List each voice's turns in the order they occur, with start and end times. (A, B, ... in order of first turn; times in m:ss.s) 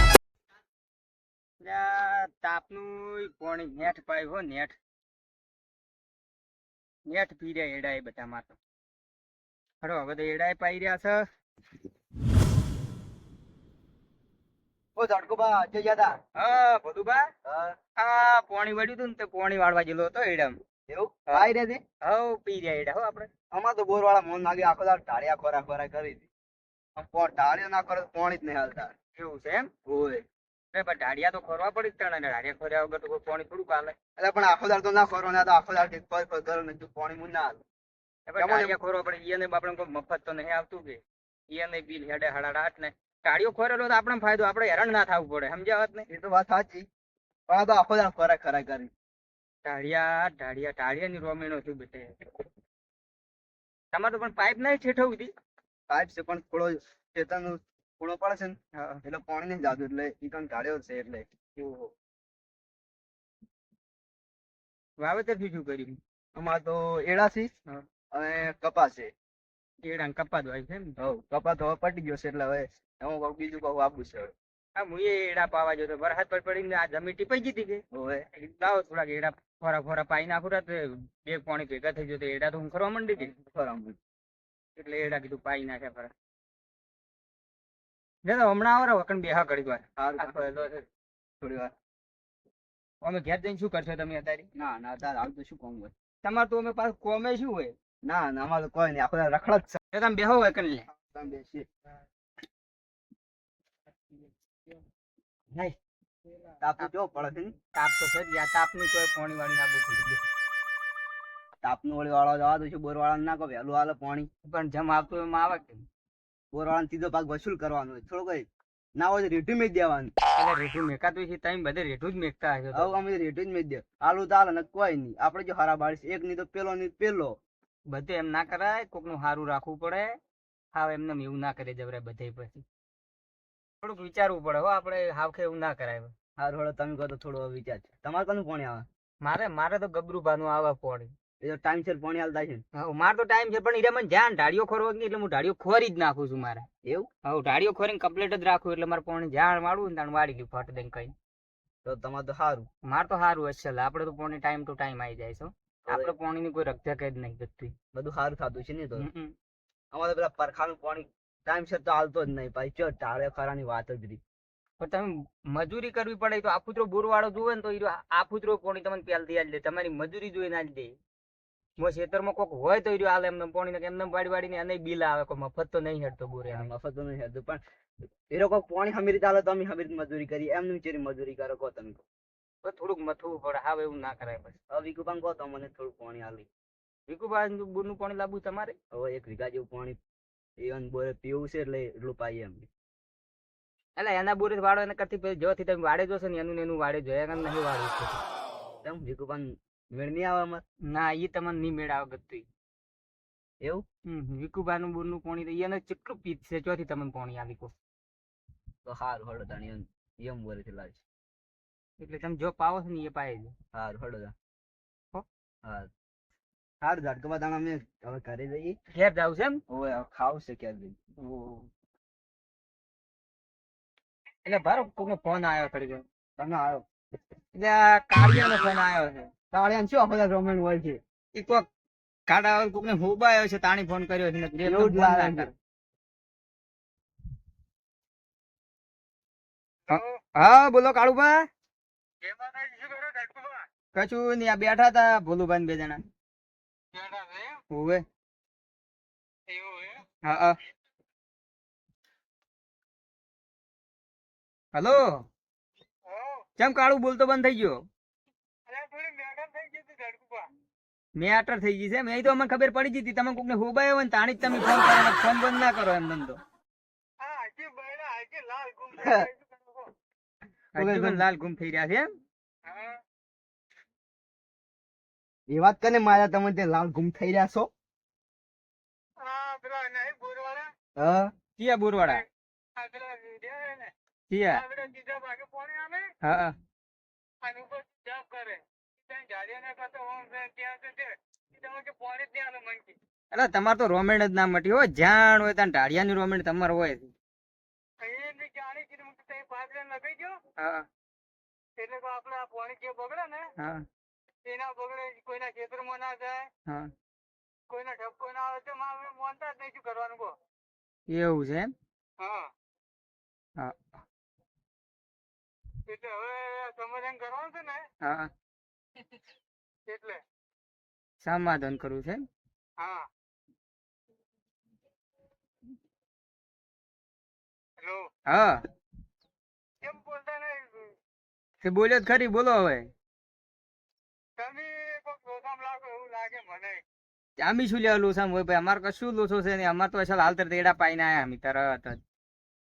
0:01.6-0:04.8 A
0:07.1-0:08.6 A
0:09.8-0:11.2 A
0:15.0-0:16.2 B
0:16.4-0:17.2 A
0:17.4-0:17.8 B
0:18.0-0:20.6 A
0:20.9-0:21.8 B
0:22.0-0:23.3 A
0:23.5-0:26.3 B
0:27.0-0:28.9 B
0:29.2-0:29.7 A
0:29.9-0:30.2 B
0:30.7-0:33.9 A
0:34.2-0:37.6 B
0:38.3-0:46.0 A
0:38.4-0:38.7 B
0:46.1-0:46.9 B
0:47.5-0:48.9 B
0:49.6-0:52.1 A
0:53.9-0:55.3 A
0:55.9-1:01.9 B
0:58.7-0:59.0 A
1:05.0-1:06.0 A
1:06.3-1:07.5 B
1:08.1-1:09.1 B
1:09.8-1:11.0 A
1:11.0-1:14.3 B
1:14.8-1:17.8 A
1:17.9-1:18.2 B
1:18.3-1:23.3 A
1:23.3-1:24.0 B
1:24.8-1:26.1 A
1:28.2-1:30.8 A
1:30.0-1:30.6 B
1:31.4-1:31.7 B
1:33.0-1:34.5 A
1:34.6-1:35.9 B
1:36.2-1:37.7 A
1:38.0-1:39.8 B
1:39.9-1:40.8 A
1:41.1-1:41.7 B
1:46.6-1:47.5 B
1:47.7-1:50.2 A
1:51.6-1:54.3 B
1:54.4-1:55.8 A
1:56.5-1:58.5 B
1:59.0-2:00.1 B
2:00.4-2:02.9 A
2:02.7-2:07.3 B
2:07.9-2:10.1 A
2:10.7-2:12.6 A
2:13.8-2:16.1 A
2:16.4-2:18.8 B
2:19.2-2:21.1 A
2:21.4-2:22.6 B
2:22.7-2:26.6 A
2:27.2-2:31.1 A
2:31.8-2:32.7 B
2:32.8-2:37.7 A
2:35.9-2:36.1 B
2:37.9-2:39.1 B
2:39.0-2:39.3 A
2:39.9-2:44.2 B
2:44.8-2:50.9 A
2:51.8-2:56.7 A
2:56.5-2:57.6 B
2:58.3-3:02.0 B
3:02.6-3:04.6 A
3:04.7-3:06.5 B
3:07.1-3:08.7 A
3:08.9-3:10.0 B
3:10.6-3:12.7 B
3:14.0-3:18.2 A
3:18.8-3:20.6 B
3:20.8-3:22.4 A
3:24.1-3:27.7 A
3:28.8-3:31.0 B
3:32.0-3:33.5 A
3:33.7-3:34.3 B
3:35.6-3:35.9 B
3:36.8-3:38.8 B
3:38.9-3:39.6 A
3:39.7-3:41.0 B
3:41.2-3:41.7 A
3:44.4-3:46.0 A
3:46.4-3:46.8 B
3:47.5-3:49.3 A
3:49.5-3:51.0 B
3:51.3-3:51.6 A
3:52.3-3:55.5 A
3:54.6-3:55.5 B
3:59.9-4:01.3 A
3:59.9-4:00.2 C
4:02.2-4:03.6 C
4:03.9-4:06.0 A
4:06.9-4:07.6 C
4:07.7-4:08.0 A
4:09.5-4:10.0 C
4:10.2-4:10.5 A
4:14.7-4:15.2 A
4:16.1-4:16.4 C
4:16.6-4:17.8 A
4:18.7-4:20.5 C
4:21.2-4:26.4 A
4:27.2-4:29.9 C
4:29.0-4:29.3 B
4:30.7-4:32.1 A
4:30.8-4:31.2 B
4:32.7-4:33.0 C
4:35.5-4:37.7 B
4:39.2-4:40.7 C
4:41.0-4:41.3 B
4:41.6-4:42.2 A
4:42.8-4:43.9 C
4:44.3-4:44.6 A
4:44.5-4:46.1 C
4:46.2-4:46.5 A
4:47.4-4:53.0 C
4:53.3-4:57.1 A
4:58.0-5:00.4 C
5:00.6-5:00.8 A
5:01.8-5:03.5 C
5:04.4-5:06.5 C
5:07.7-5:10.4 C
5:11.1-5:11.7 A
5:12.2-5:12.5 C
5:13.6-5:14.0 A
5:15.9-5:17.8 C
5:18.0-5:18.3 A
5:19.9-5:20.2 C
5:21.2-5:22.2 A
5:22.8-5:23.1 C
5:27.8-5:28.1 C
5:28.3-5:28.6 A
5:29.8-5:30.9 C
5:31.6-5:32.9 A
5:34.4-5:36.8 C
5:37.4-5:42.0 A